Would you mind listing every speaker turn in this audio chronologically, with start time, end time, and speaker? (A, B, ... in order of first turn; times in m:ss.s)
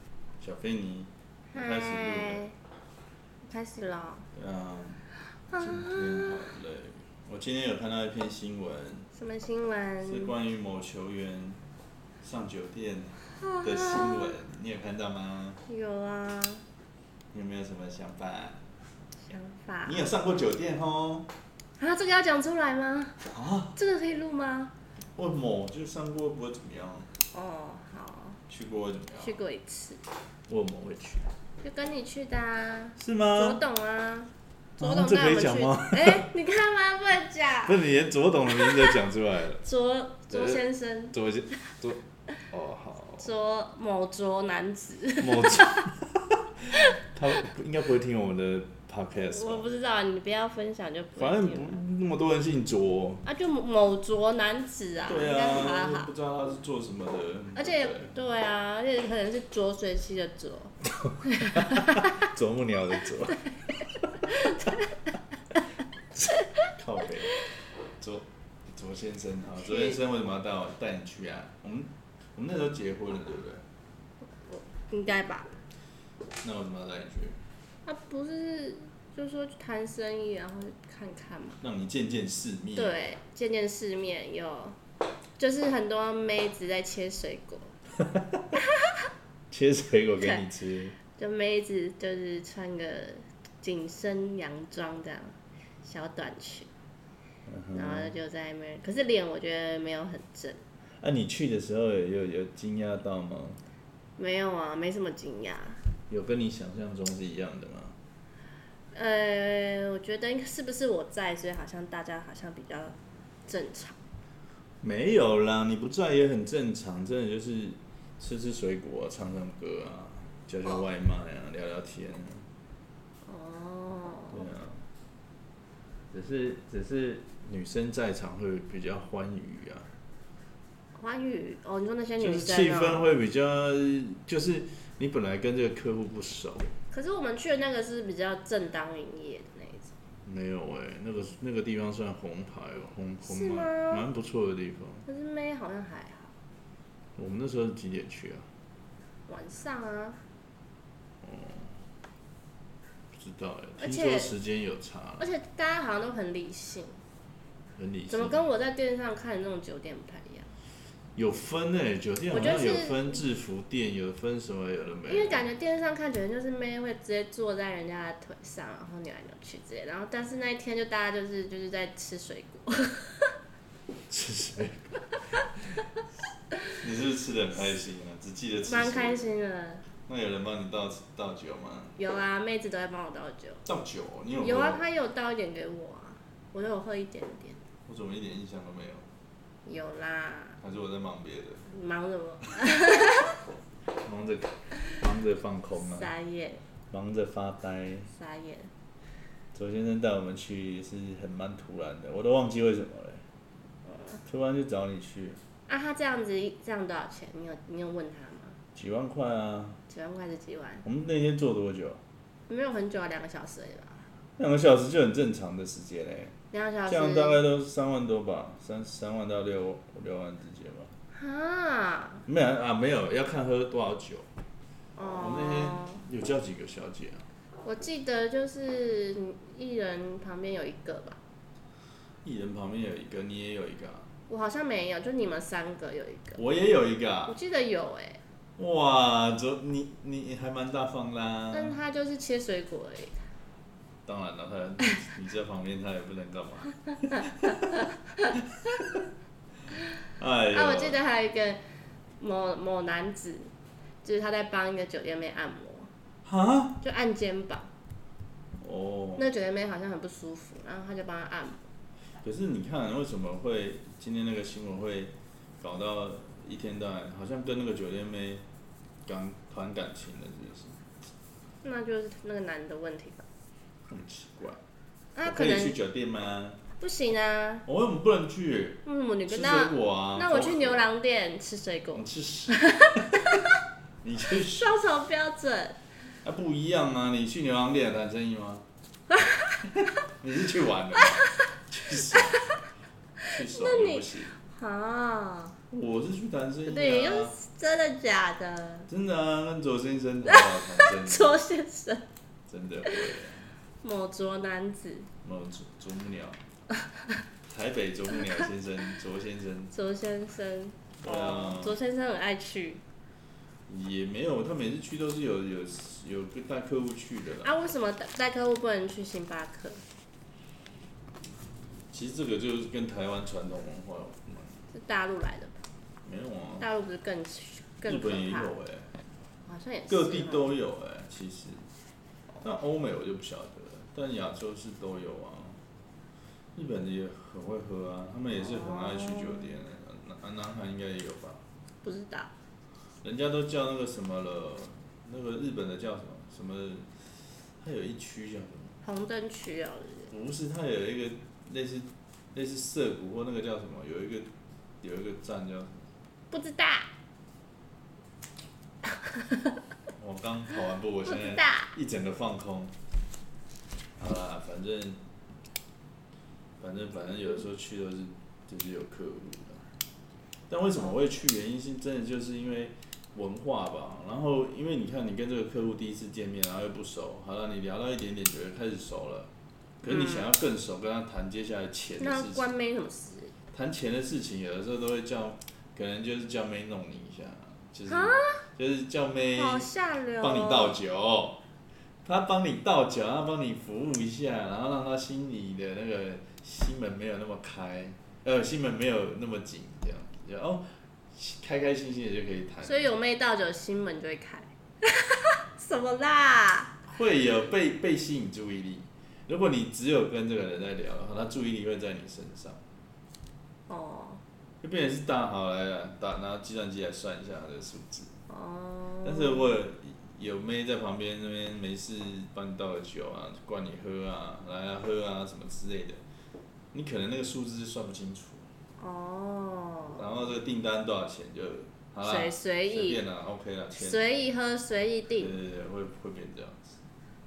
0:00.4-0:02.4 A
0:01.5-0:02.6 B
0:03.4-0:04.3 B
0:04.3-0:05.1 A
0:05.5-0:06.4 B
0:05.6-0:09.1 A
0:09.1-0:10.3 B
0:10.0-0:11.6 A
0:12.2-0:15.6 A
0:13.4-0:14.3 B
0:15.6-0:16.6 B
0:17.3-0:18.6 A
0:19.2-0:20.0 B
0:19.8-0:21.3 A
0:21.8-0:23.2 B
0:23.3-0:23.7 A
0:23.8-0:24.7 B
0:25.2-0:27.1 A
0:27.3-0:28.4 B
0:28.5-0:29.4 A
0:29.2-0:30.0 B
0:30.5-0:31.3 A
0:31.6-0:37.8 B
0:33.0-0:33.6 A
0:34.8-0:36.3 A
0:37.7-0:39.6 A
0:38.5-0:39.0 B
0:39.6-0:41.2 B
0:40.3-0:43.3 A
0:43.2-0:45.7 B
0:45.2-0:46.3 A
0:47.0-0:49.7 A
0:49.2-0:51.8 B
0:51.2-0:53.2 A
0:53.2-0:56.1 B
0:55.1-0:58.1 A
0:57.6-1:02.3 B
1:01.6-1:04.1 A
1:04.3-1:04.9 B
1:06.7-1:07.3 A
1:08.0-1:13.6 A
1:09.6-1:10.0 B
1:14.4-1:15.5 B
1:16.4-1:17.4 A
1:17.8-1:21.6 B
1:21.6-1:22.9 A
1:22.8-1:24.8 B
1:25.4-1:27.8 B
1:28.6-1:29.1 B
1:29.5-1:31.0 A
1:31.2-1:36.7 B
1:37.5-1:38.1 A
1:37.8-1:40.6 B
1:41.0-1:43.6 A
1:44.2-1:45.8 B
1:46.1-1:48.0 A
1:48.9-1:53.0 B
1:53.5-1:54.0 B
1:54.8-2:02.5 A
2:03.2-2:04.5 B
2:04.3-2:04.8 A
2:06.1-2:09.9 A
2:11.0-2:13.1 B
2:12.2-2:16.7 A
2:16.9-2:19.9 B
2:20.2-2:25.0 A
2:23.2-2:24.0 B
2:25.1-2:26.3 B
2:27.2-2:28.5 A
2:29.3-2:30.2 B
2:31.2-2:31.8 A
2:33.2-2:35.3 A
2:33.8-2:34.3 B
2:35.2-2:37.0 B
2:37.8-2:38.4 A
2:38.1-2:40.5 B
2:41.2-2:45.5 A
2:42.3-2:43.2 B
2:45.1-2:53.4 B
2:54.1-2:54.9 A
2:56.8-2:59.2 A
2:58.6-2:59.8 B
3:00.1-3:02.0 A
3:02.0-3:03.6 B
3:03.6-3:04.8 A
3:04.3-3:07.6 B
3:07.9-3:09.1 A
3:09.6-3:10.6 B
3:10.6-3:11.7 A
3:11.7-3:13.4 B
3:14.0-3:16.1 A
3:15.8-3:16.6 B
3:16.9-3:18.1 A
3:18.1-3:18.7 B
3:19.5-3:23.2 A
3:24.3-3:25.4 A
3:25.7-3:28.6 B
3:28.8-3:29.8 A
3:29.9-3:30.8 B
3:30.8-3:32.0 A
3:32.5-3:34.1 B
3:34.4-3:36.4 A
3:36.5-3:37.4 B
3:36.9-3:40.9 A
3:41.1-3:42.2 B
3:42.3-3:44.3 A
3:45.0-3:46.0 B
3:45.0-3:47.3 A
3:47.6-3:51.2 B
3:52.2-3:54.1 A
3:54.3-3:56.4 B
3:56.4-3:57.4 A
3:57.3-3:58.2 B
3:58.6-4:01.8 A
4:01.5-4:03.2 B
4:04.1-4:07.6 A
4:10.2-4:11.0 A
4:10.5-4:11.6 B
4:12.2-4:13.5 B
4:14.0-4:15.9 B
4:16.2-4:16.8 A
4:16.8-4:17.7 B
4:18.6-4:19.2 A
4:19.2-4:21.7 B
4:22.2-4:28.4 A
4:29.1-4:30.8 A
4:31.6-4:33.2 B
4:33.9-4:34.6 A
4:35.2-4:35.8 B
4:35.2-4:36.6 A
4:36.8-4:37.6 B
4:37.7-4:40.8 A
4:38.8-4:43.1 B
4:41.9-4:43.1 A
4:44.0-4:44.7 A
4:44.4-4:45.8 B
4:46.2-4:48.6 A
4:49.8-4:52.5 A
4:53.2-4:54.4 A
4:53.5-4:55.6 B
4:55.7-4:57.4 A
4:56.6-4:58.9 B
4:58.9-5:01.4 A
5:00.3-5:02.0 B
5:02.5-5:03.5 A
5:03.8-5:05.1 B
5:05.2-5:06.4 A
5:07.5-5:09.7 A
5:09.7-5:12.8 B
5:11.0-5:11.8 A
5:13.7-5:17.5 A
5:17.4-5:19.8 B
5:21.9-5:24.7 A
5:24.7-5:25.6 B
5:26.0-5:26.7 A
5:26.6-5:28.5 B
5:27.8-5:28.9 A
5:29.5-5:30.5 B
5:29.9-5:31.7 A
5:32.4-5:35.6 A
5:36.6-5:41.4 A
5:38.3-5:39.6 B
5:41.8-5:42.3 B
5:43.0-5:48.8 A
5:48.8-5:50.1 B
5:50.1-5:54.3 A
5:54.8-5:55.8 A
5:56.3-5:56.9 B
6:00.0-6:02.7 A
6:01.0-6:01.7 B
6:04.0-6:05.0 A
6:06.6-6:09.7 A
6:10.5-6:19.3 A
6:19.8-6:20.3 B
6:19.8-6:22.5 A
6:22.0-6:23.3 B
6:23.5-6:29.7 A
6:27.9-6:28.4 B
6:29.4-6:30.8 B
6:30.2-6:31.4 A
6:32.0-6:42.9 A
6:42.6-6:46.8 B
6:46.8-6:52.6 A
6:53.7-6:54.2 B
6:54.6-6:58.1 A
6:58.3-6:59.6 B
6:59.0-7:06.0 A
7:06.7-7:08.5 A
7:08.8-7:10.1 B
7:10.0-7:14.0 A
7:12.0-7:13.0 B
7:13.7-7:15.3 B
7:15.2-7:16.8 A